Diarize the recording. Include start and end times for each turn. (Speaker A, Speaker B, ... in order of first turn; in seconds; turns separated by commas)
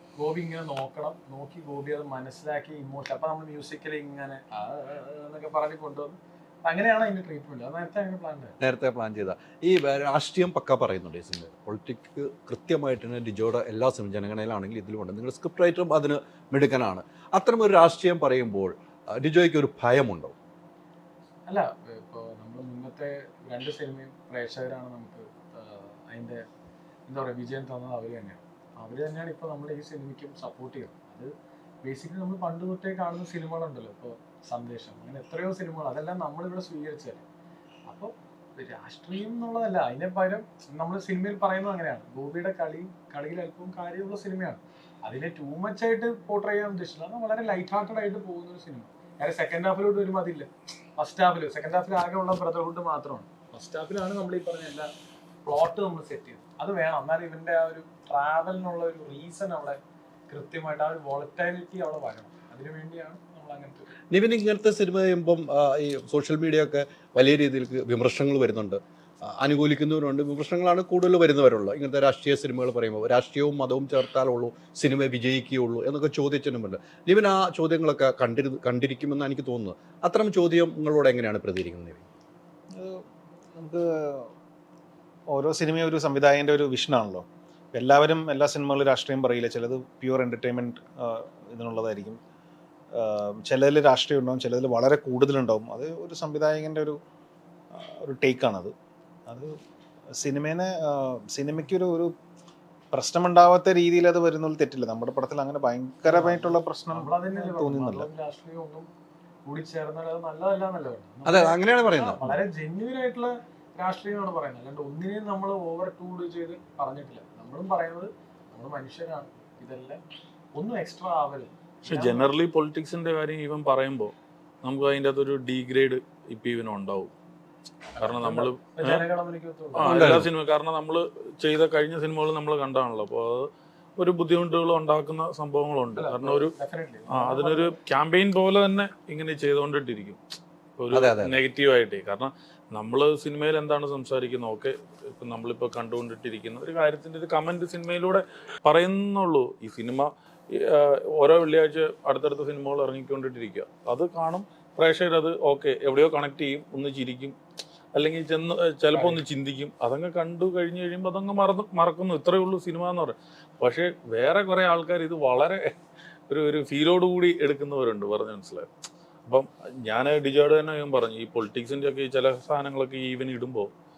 Speaker A: 0.2-8.5, Speaker B: 8.6-20.3, Speaker A: 21.5-26.4, Speaker A: 27.1-31.3, Speaker A: 31.8-37.2, Speaker A: 37.9-54.9, Speaker A: 55.4-64.0, Speaker B: 64.1-82.0, Speaker C: 82.8-83.0, Speaker C: 83.5-84.3, Speaker C: 85.3-92.2, Speaker C: 92.9-97.0, Speaker C: 97.7-98.7, Speaker C: 99.3-99.6, Speaker C: 100.2-102.1, Speaker C: 102.9-108.1, Speaker A: 106.1-108.9, Speaker A: 109.4-120.0, Speaker B: 111.2-112.4, Speaker A: 120.5-122.3, Speaker D: 121.8-127.1, Speaker A: 128.0-130.3, Speaker D: 128.0-129.0, Speaker D: 129.7-136.5, Speaker B: 129.8-130.3, Speaker A: 135.9-137.7, Speaker D: 137.1-140.2, Speaker D: 140.8-157.3, Speaker B: 140.9-141.3, Speaker D: 157.9-165.8, Speaker A: 158.9-159.2, Speaker D: 166.3-168.7, Speaker D: 169.2-173.7